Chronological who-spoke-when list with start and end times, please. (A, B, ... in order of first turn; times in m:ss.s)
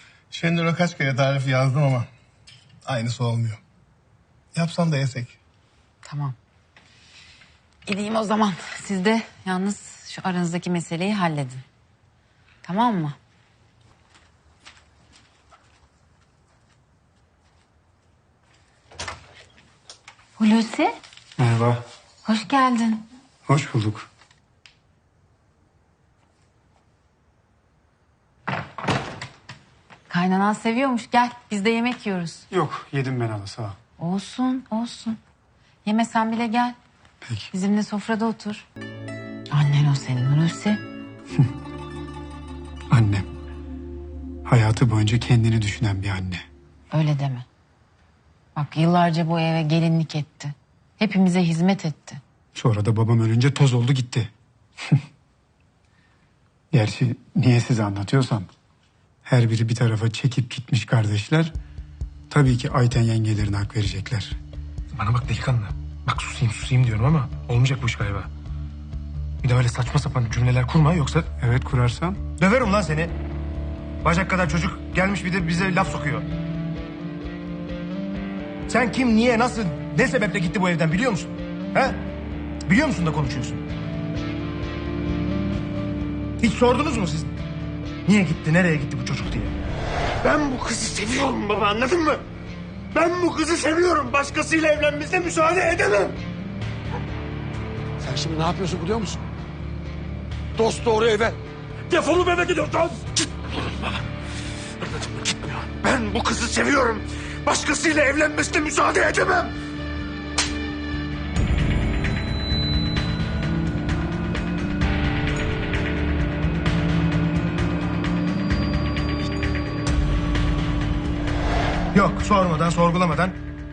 0:00.3-0:02.1 A
0:02.8-0:03.6 A
0:04.6-0:05.4 A
0:06.0-0:06.4 B
0:07.9-0:11.6 B
0:12.6-0:13.2 B
0:20.4-0:21.0 B
0:21.4-0:21.8 C
0:22.2-0:23.0 B
0:23.5-0:24.1 C
0:30.1-0:32.5 B
0:32.5-0:33.8 C
0:34.0-0:35.2 B
0:35.8-0:36.8 B
0:37.2-0:37.5 C
0:37.5-0:38.6 B
0:39.5-0:40.8 B
0:42.9-0:43.3 C
0:44.4-0:46.5 C
0:46.9-0:47.5 B
0:48.6-0:52.2 B
0:52.6-0:54.3 C
0:56.7-0:58.5 C
0:59.2-1:01.6 C
1:02.3-1:04.4 C
1:05.0-1:08.3 D
1:09.4-1:11.3 D
1:11.4-1:12.2 C
1:12.4-1:13.2 D
1:14.0-1:16.3 D
1:18.7-1:22.0 D
1:22.6-1:23.6 D
1:26.4-1:27.3 D
1:28.1-1:29.6 D
1:30.2-1:32.2 D
1:32.9-1:36.2 D
1:38.0-1:39.2 E
1:40.6-1:41.4 E
1:41.9-1:43.1 D
1:42.0-1:43.9 E
1:44.8-1:49.5 E
1:46.1-1:49.5 D
2:01.9-2:03.4 D